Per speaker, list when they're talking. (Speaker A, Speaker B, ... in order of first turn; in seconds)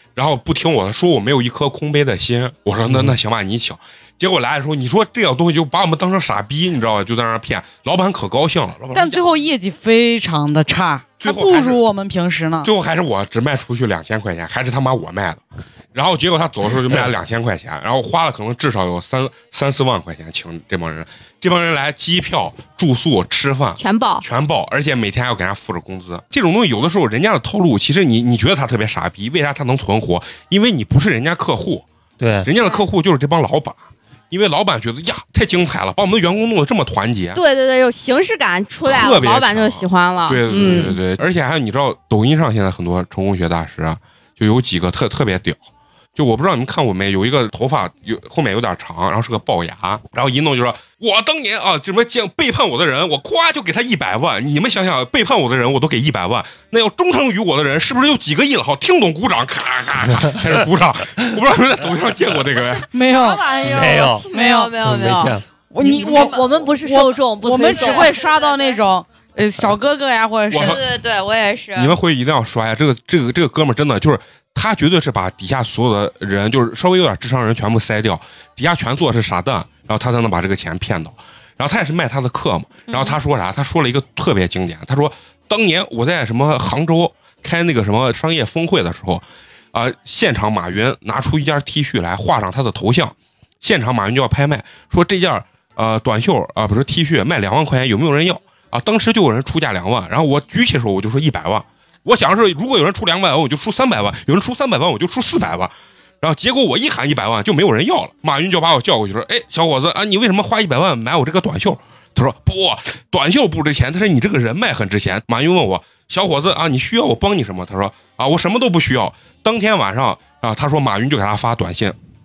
Speaker A: 0.2-9.2, 11.2-11.8, 12.6-15.4, 15.9-31.9, 32.4-37.4, 38.9-45.6, 46.2-62.9, 70.5-70.8, 71.8-122.0
Speaker B: 2.9-3.2, 32.2-32.5, 63.6-64.3, 64.8-65.4
Speaker C: 8.9-12.7, 62.9-63.5, 64.3-64.8, 65.7-70.8
Speaker D: 23.8-24.2, 37.4-41.0, 64.3-65.4, 67.6-68.8, 70.6-72.0, 82.9-83.2
Speaker E: 62.9-64.3, 65.8-68.2